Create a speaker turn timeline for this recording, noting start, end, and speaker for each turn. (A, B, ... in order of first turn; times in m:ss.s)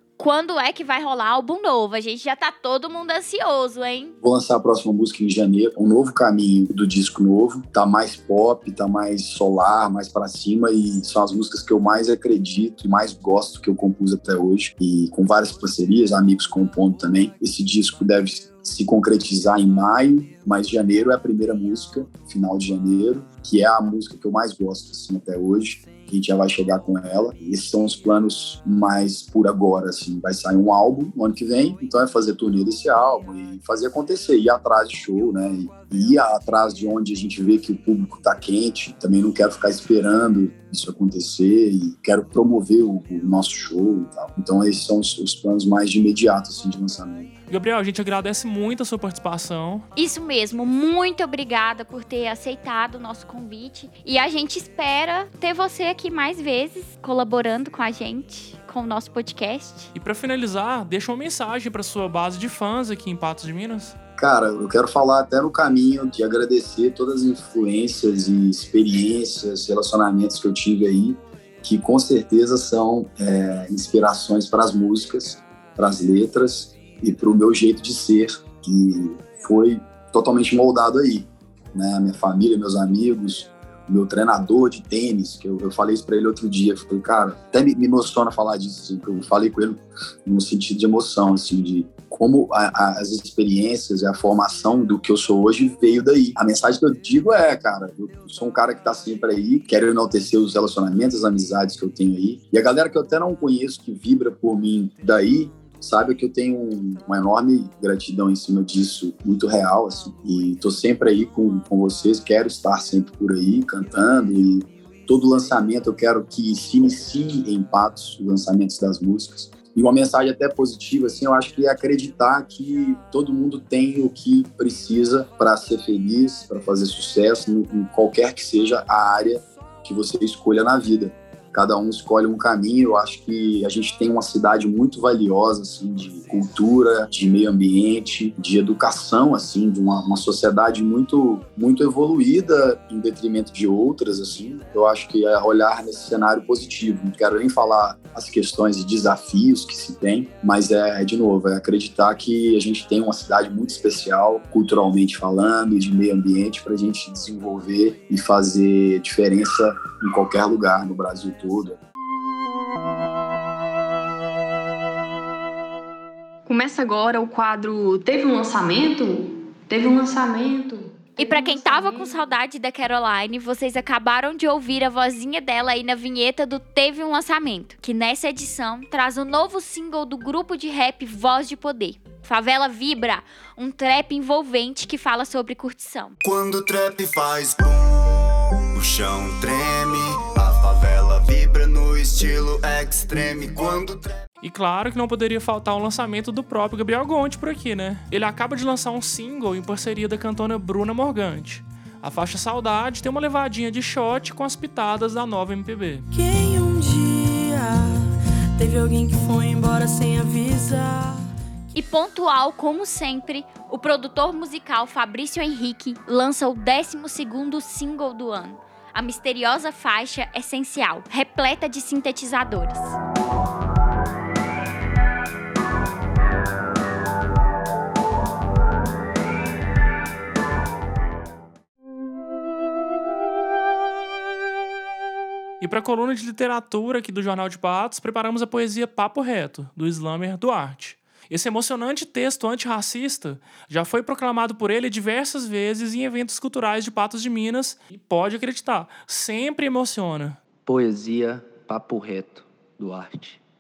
0:00.2-0:04.2 A
0:04.2-0:47.3 B
0:47.5-0:49.9 C
0:50.0-0:59.9 A
1:00.0-1:04.0 C
1:04.2-2:41.8 B
2:46.5-2:52.2 D
2:51.2-3:06.2 A
3:06.2-3:14.2 E
3:14.4-3:26.1 C
3:26.1-3:27.9 F
3:28.6-3:31.1 F
3:31.7-3:43.0 A
3:55.6-4:10.4 C
4:10.7-4:13.4 G